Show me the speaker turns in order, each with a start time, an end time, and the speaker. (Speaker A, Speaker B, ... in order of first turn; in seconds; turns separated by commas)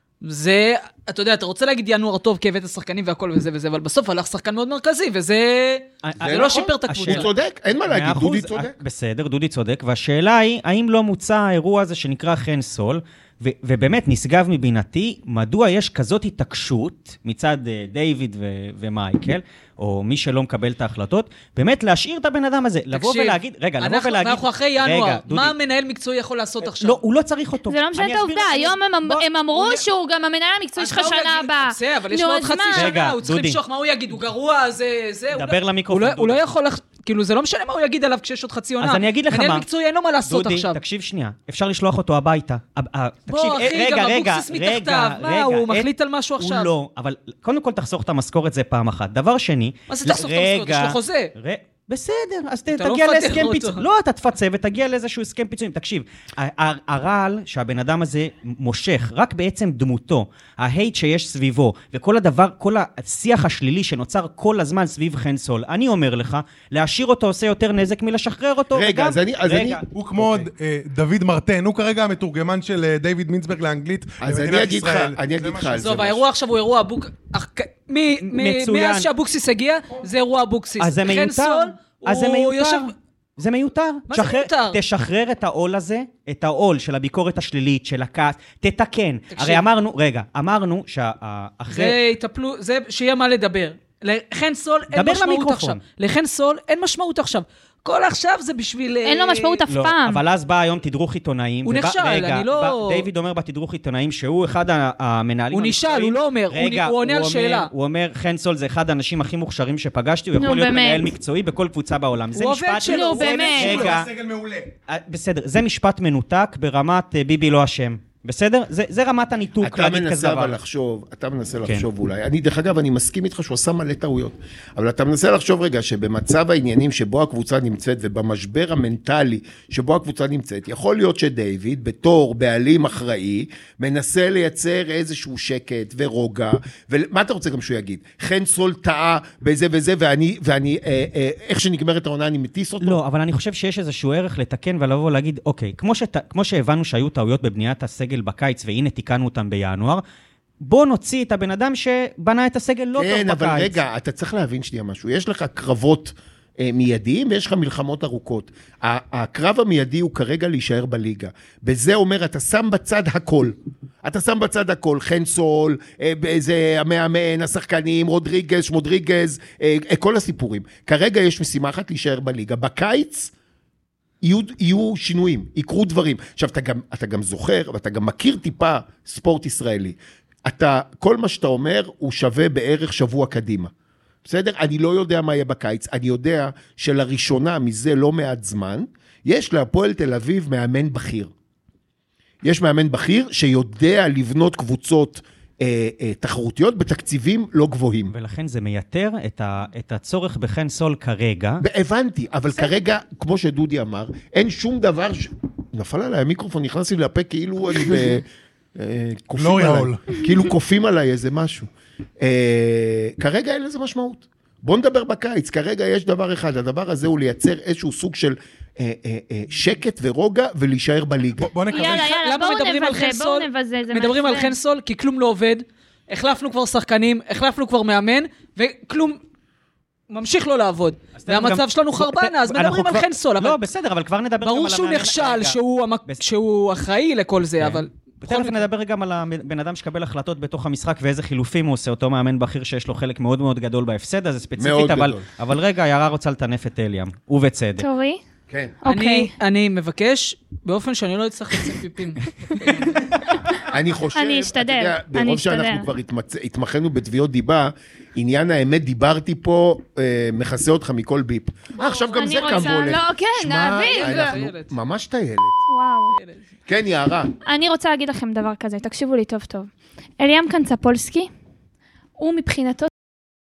Speaker A: 0.2-7.3, Speaker B: 6.0-7.3, Speaker C: 6.2-8.8, Speaker B: 7.9-25.6, Speaker A: 22.9-27.0, Speaker B: 26.6-29.7, Speaker D: 27.7-33.0, Speaker A: 30.8-40.8, Speaker B: 32.7-33.6, Speaker B: 35.3-36.5, Speaker B: 38.8-39.6, Speaker B: 40.3-70.5, Speaker A: 43.3-46.7, Speaker A: 49.9-51.3, Speaker A: 52.8-53.8, Speaker C: 68.7-69.8, Speaker E: 69.9-75.8, Speaker C: 74.2-76.2, Speaker A: 75.8-82.9, Speaker B: 78.2-79.1, Speaker B: 80.8-92.0, Speaker A: 84.1-84.8, Speaker A: 89.3-89.6, Speaker A: 91.7-99.6, Speaker B: 94.9-95.8, Speaker D: 99.0-100.2, Speaker B: 99.7-114.1, Speaker A: 101.6-103.1, Speaker A: 105.5-107.7, Speaker D: 110.4-111.1, Speaker A: 112.3-113.9, Speaker D: 112.8-113.9, Speaker E: 113.6-114.7, Speaker B: 114.9-120.6, Speaker C: 119.6-143.0, Speaker B: 142.8-150.0, Speaker B: 150.6-153.8, Speaker C: 153.0-173.3, Speaker C: 174.2-183.7, Speaker C: 184.2-191.3, Speaker C: 192.4-198.1, Speaker B: 198.1-201.6, Speaker C: 201.6-211.7, Speaker E: 209.4-210.2, Speaker C: 212.2-221.5, Speaker E: 221.4-222.2, Speaker D: 221.7-224.6, Speaker A: 221.8-229.2, Speaker A: 230.1-233.6, Speaker B: 231.2-236.2, Speaker A: 234.4-238.6, Speaker B: 237.6-247.9, Speaker C: 244.6-245.3, Speaker D: 247.8-248.2, Speaker C: 248.5-248.8, Speaker D: 248.8-249.3, Speaker A: 248.9-253.1, Speaker C: 253.7-265.6, Speaker D: 254.1-255.9, Speaker A: 261.8-262.9, Speaker D: 261.9-264.4, Speaker A: 263.7-264.7, Speaker D: 265.7-266.2, Speaker A: 266.1-266.4, Speaker C: 266.7-267.3, Speaker D: 267.4-269.7, Speaker D: 270.2-271.3, Speaker D: 272.2-272.9